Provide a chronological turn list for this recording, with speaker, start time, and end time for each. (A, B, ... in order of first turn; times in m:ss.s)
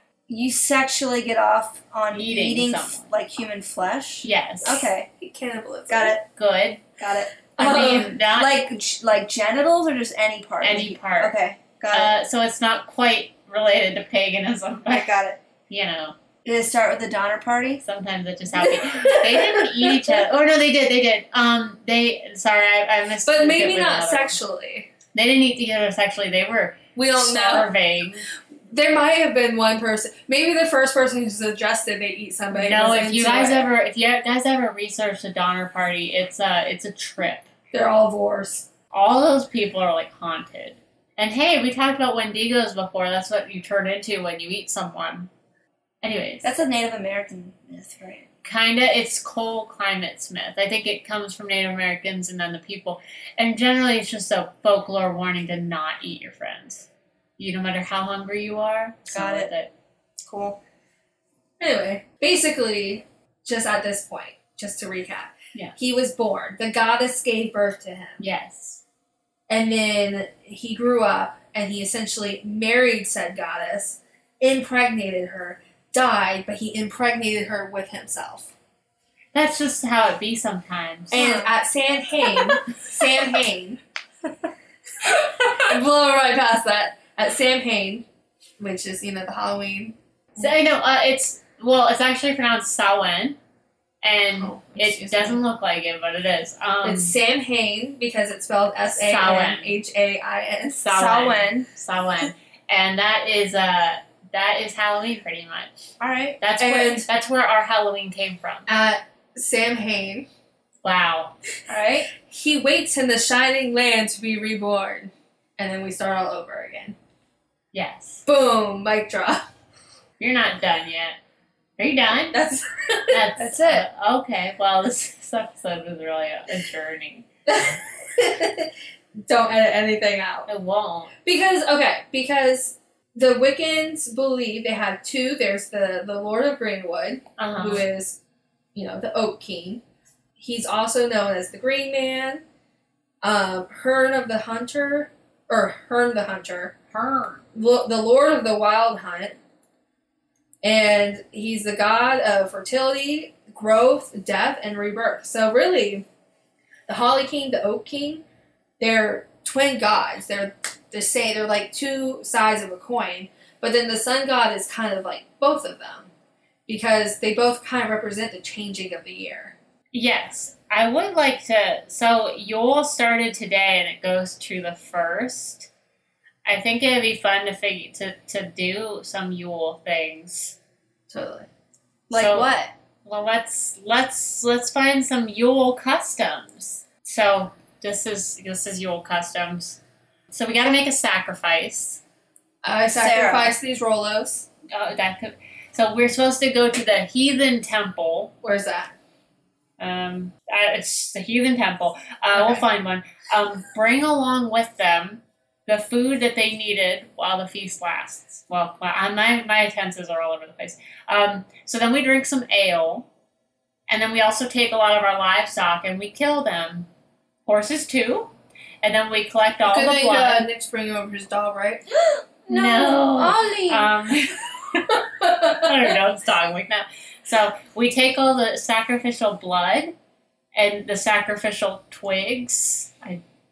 0:00.3-0:05.1 A
0:02.1-0:03.1 B
0:04.2-0:04.9 B
0:05.2-0:06.2 C
0:05.9-0:06.2 A
0:06.4-0:06.8 B
0:07.0-0:08.2 C
0:07.6-0:08.8 B
0:07.6-0:12.1 A
0:10.6-0:11.4 B
0:11.9-0:16.1 B
0:14.9-0:15.4 A
0:16.4-0:17.8 A
0:17.8-0:24.4 B
0:18.7-0:20.1 C
0:23.2-0:24.9 C
0:25.1-0:28.3 B
0:27.0-0:27.7 C
0:28.7-0:33.7 C
0:32.5-0:37.5 B
0:37.7-0:38.7 C
0:38.9-0:45.3 B
0:46.0-0:46.5 B
0:46.4-0:48.3 A
0:48.4-0:59.7 B
0:59.1-0:59.5 A
1:00.2-1:00.6 A
1:01.6-1:08.2 C
1:08.2-1:08.8 B
1:09.5-1:18.5 C
1:19.3-1:21.4 B
1:21.1-1:21.5 A
1:21.1-1:23.8 C
1:25.0-1:28.0 C
1:28.6-1:30.4 C
1:30.4-1:33.4 B
1:34.0-1:37.1 B
1:34.4-1:35.4 C
1:36.8-1:40.8 C
1:38.9-1:39.8 B
1:40.8-1:48.7 B
1:40.9-1:41.7 A
1:46.0-1:46.4 A
1:46.6-1:47.1 C
1:48.7-1:50.3 C
1:50.8-1:51.3 B
1:51.7-1:52.1 A
1:52.1-1:56.9 C
1:57.7-1:58.2 B
1:58.2-1:59.4 C
2:00.2-2:01.2 B
2:01.8-2:02.4 B
2:02.3-2:03.8 C
2:03.1-2:07.2 B
2:07.5-2:08.7 C
2:09.3-2:10.5 C
2:10.5-2:11.1 B
2:11.2-2:18.2 C
2:17.4-2:17.8 B
2:18.7-2:19.8 C
2:20.4-2:22.4 C
2:23.2-2:26.7 C
2:26.9-2:27.4 B
2:27.5-2:29.4 C
2:30.6-2:36.0 C
2:36.9-2:38.2 C
2:38.8-2:46.1 C
2:46.7-2:49.5 C
2:49.9-2:55.7 B
2:56.4-3:00.6 B
3:01.1-3:01.5 C
3:02.1-3:02.7 A
3:02.1-3:02.5 B
3:03.0-3:12.0 B
3:12.6-3:14.5 C
3:12.9-3:13.6 A
3:14.7-3:18.3 B
3:18.4-3:18.9 C
3:19.8-3:33.1 B
3:22.3-3:22.6 C
3:33.9-3:36.9 B
3:37.4-3:38.3 B
3:38.8-3:40.4 B
3:39.7-3:41.8 C
3:42.0-3:43.9 A
3:42.5-3:44.4 B
3:43.2-3:43.5 C
3:44.9-3:45.6 C
3:45.2-3:49.9 B
3:50.5-3:53.2 B